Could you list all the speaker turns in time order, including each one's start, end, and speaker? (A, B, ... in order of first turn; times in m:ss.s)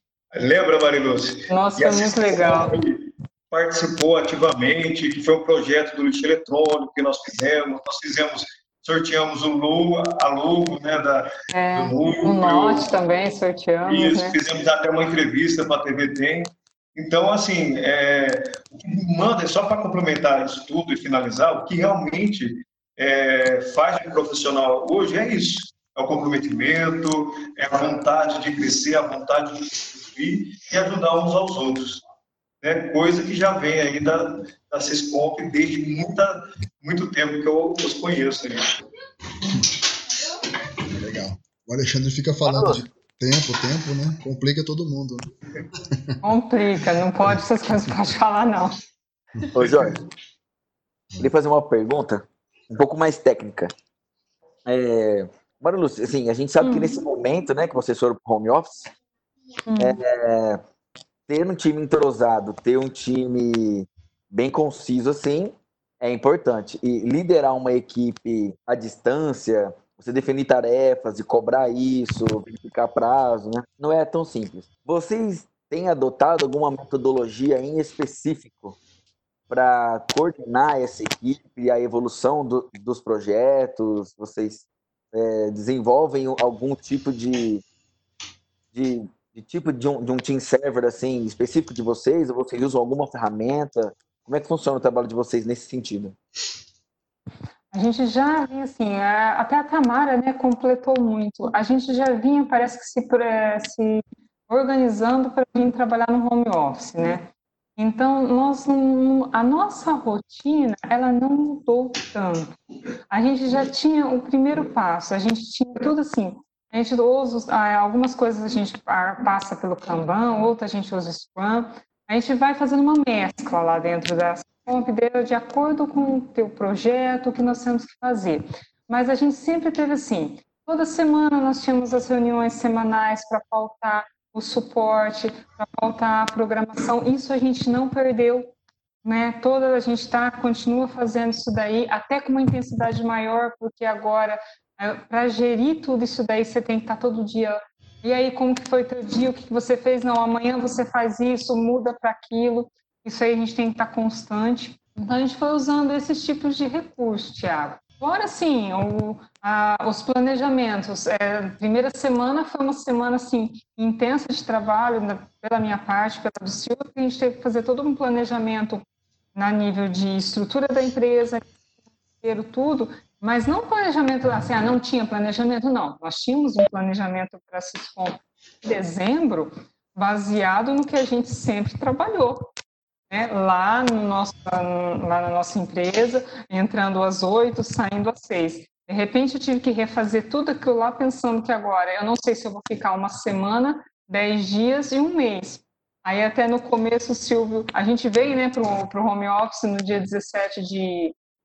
0:00.3-0:13.0 A
0:01.5-0:02.8 B
0:11.5-0:14.4 B
0:13.8-0:32.0 A
0:32.6-0:38.7 A
0:39.5-0:39.7 C
0:40.8-0:46.2 C
0:42.5-0:42.8 D
0:46.2-0:48.8 B
0:49.3-0:50.0 C
0:49.5-0:50.0 D
0:51.2-0:53.7 D
0:54.7-0:58.9 D
0:56.6-0:57.0 B
0:59.7-1:00.0 B
0:59.8-1:00.6 D
1:01.3-1:18.8 D
1:19.5-1:27.6 D
1:28.7-1:36.2 D
1:37.7-1:52.6 B
1:53.1-2:18.5 B
2:19.0-2:48.8 B
2:49.4-2:51.5 B
2:52.2-3:02.5 B
3:03.1-3:21.2 B